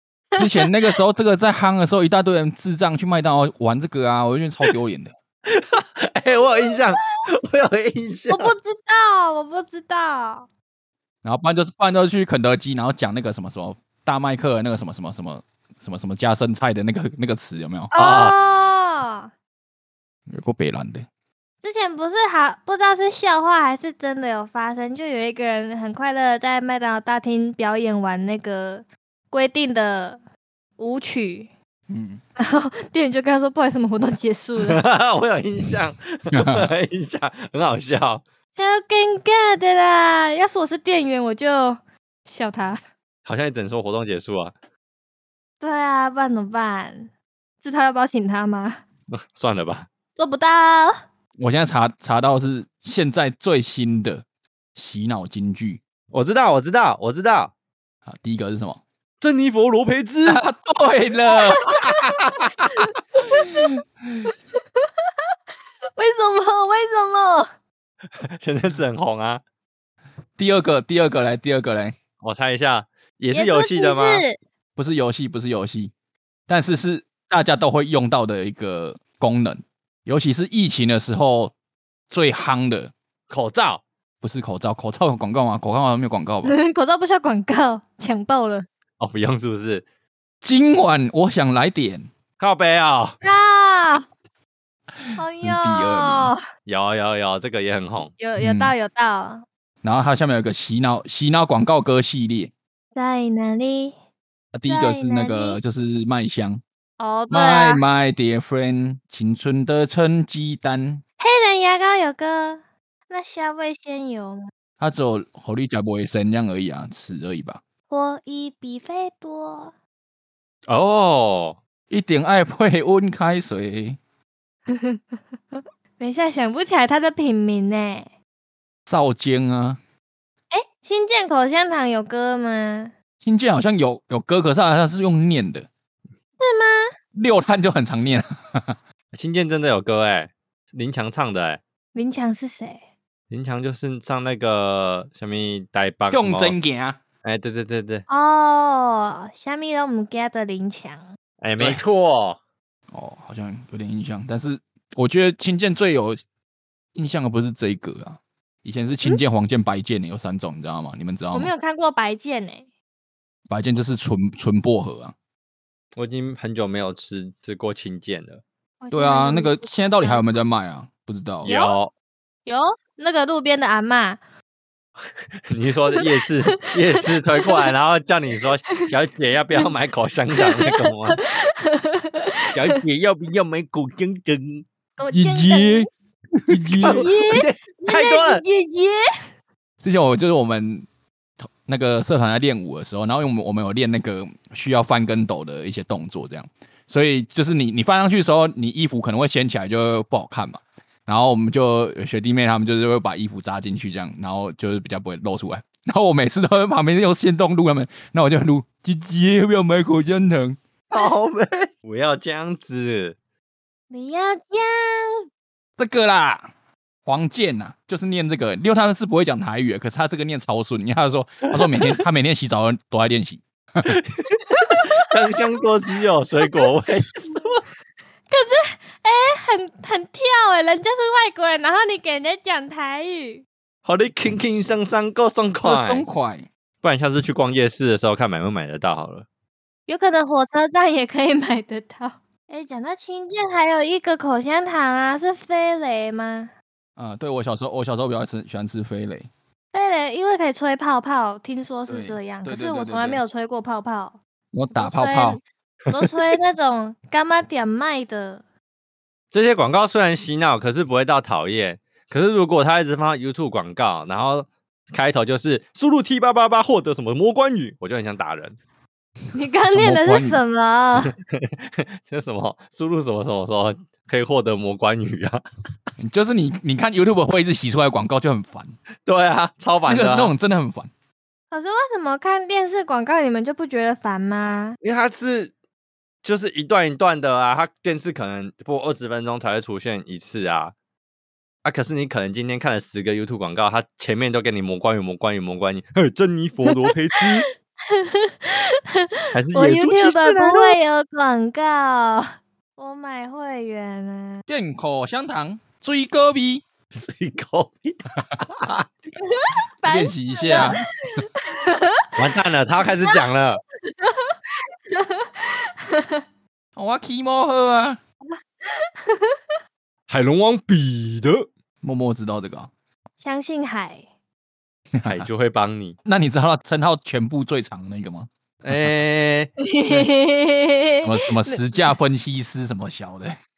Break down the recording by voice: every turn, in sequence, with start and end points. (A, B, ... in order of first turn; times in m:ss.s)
0:00.4-0:00.6 A
0:00.4-0:05.1 B
0:05.5-0:08.5 C
0:06.6-0:06.8 A
0:08.3-0:10.5 A
0:11.2-0:17.9 B
0:17.9-0:19.3 A
0:17.9-0:18.3 C
0:20.3-0:21.1 B
0:21.6-0:30.2 A
0:30.8-0:31.5 A
0:31.9-0:32.2 B
0:32.4-0:34.8 A
0:34.6-0:38.2 C
0:36.3-0:36.7 B
0:38.5-0:42.8 A
0:43.2-0:44.5 C
0:45.6-0:47.1 A
0:47.6-0:48.8 A
0:49.1-0:49.9 C
0:50.2-0:51.0 A
0:51.4-0:54.2 B
0:54.7-0:55.8 B
0:56.1-0:57.5 C
0:58.1-0:58.8 B
0:59.2-1:00.4 C
1:00.2-1:02.6 B
1:01.3-1:03.7 A
1:03.5-1:04.3 B
1:06.0-1:07.5 A
1:08.2-1:09.4 C
1:10.4-1:12.0 B
1:12.2-1:14.2 C
1:13.3-1:14.4 A
1:14.8-1:15.9 B
1:16.5-1:21.5 B
1:22.1-1:22.9 B
1:23.3-1:23.8 C
1:24.2-1:26.5 B
1:26.4-1:28.7 A
1:29.0-1:29.8 C
1:30.4-1:32.1 B
1:32.4-1:33.2 C
1:33.2-1:34.0 A
1:35.0-1:36.3 B
1:35.2-1:36.4 A
1:36.6-1:38.1 C
1:38.2-1:39.4 A
1:38.4-1:38.7 B
1:39.8-1:42.5 B
1:42.9-1:43.9 A
1:44.5-1:46.6 B
1:44.7-1:45.6 A
1:47.0-1:47.8 A
1:47.3-1:51.0 B
1:51.2-1:54.5 A
1:54.8-1:57.6 B
1:57.9-1:59.7 A
2:00.7-2:01.6 C
2:01.9-2:04.0 B
2:04.7-2:05.0 A
2:05.5-2:08.1 A
2:08.9-2:09.8 B
2:10.5-2:12.9 A
2:13.2-2:15.7 B
2:16.4-2:16.9 A
2:17.1-2:18.8 B
2:19.1-2:21.6 C
2:21.9-2:22.8 A
2:23.3-2:26.5 C
2:26.1-2:27.0 B
2:27.2-2:28.0 C
2:28.1-2:31.1 A
2:31.4-2:32.4 C
2:32.9-2:36.2 B
2:36.9-2:41.5 B
2:41.3-2:42.7 A
2:43.5-2:45.1 B
2:46.0-2:48.4 C
2:48.8-2:50.3 A
2:48.9-2:51.5 B
2:51.4-2:51.9 C
2:51.4-2:51.8 A
2:52.4-2:54.2 A
2:55.5-3:01.2 C
2:55.9-2:57.6 A
3:00.4-3:02.8 A
3:02.5-3:04.6 C
3:05.0-3:05.9 A
3:05.1-3:07.1 B
3:06.7-3:08.4 C
3:06.8-3:09.0 A
3:09.8-3:10.8 B
3:11.4-3:30.6 B
3:30.9-3:33.2 C
3:33.9-3:35.2 A
3:35.8-3:36.5 B
3:37.0-3:44.0 B
3:41.6-3:42.0 C
3:43.8-3:47.6 C
3:44.4-3:45.3 A
3:48.3-3:53.4 A
3:53.8-3:56.0 C
3:55.6-3:56.5 B
3:56.8-3:59.2 C
3:59.9-4:06.5 A
4:07.0-4:09.3 B
4:09.7-4:14.2 A
4:11.9-4:13.2 B
4:14.5-4:15.4 B
4:14.7-4:18.4 A
4:19.3-4:28.6 C
4:29.3-4:31.1 A
4:29.7-4:30.4 B
4:31.3-4:35.4 C
4:36.0-4:38.7 B
4:39.0-4:40.3 C
4:39.8-4:40.9 B
4:41.5-4:44.8 A
4:44.8-4:45.5 C
4:46.2-4:50.7 C
4:51.6-4:57.5 C
4:56.7-4:57.2 A
4:57.9-5:04.4 A
4:59.3-5:00.8 C
5:04.5-5:06.6 B
5:06.9-5:08.8 C
5:09.2-5:12.1 A
5:09.9-5:10.9 B
5:12.2-5:13.6 C
5:12.8-5:13.2 A
5:13.9-5:14.4 A
5:14.9-5:16.2 A
5:16.8-5:18.0 B
5:18.3-5:19.4 A
5:20.1-5:21.5 C
5:21.8-5:22.7 B
5:23.2-5:24.1 A
5:25.0-5:25.3 B
5:25.0-5:26.0 C
5:26.0-5:28.9 B
5:28.6-5:29.5 C
5:29.6-5:31.9 A
5:31.0-5:33.4 B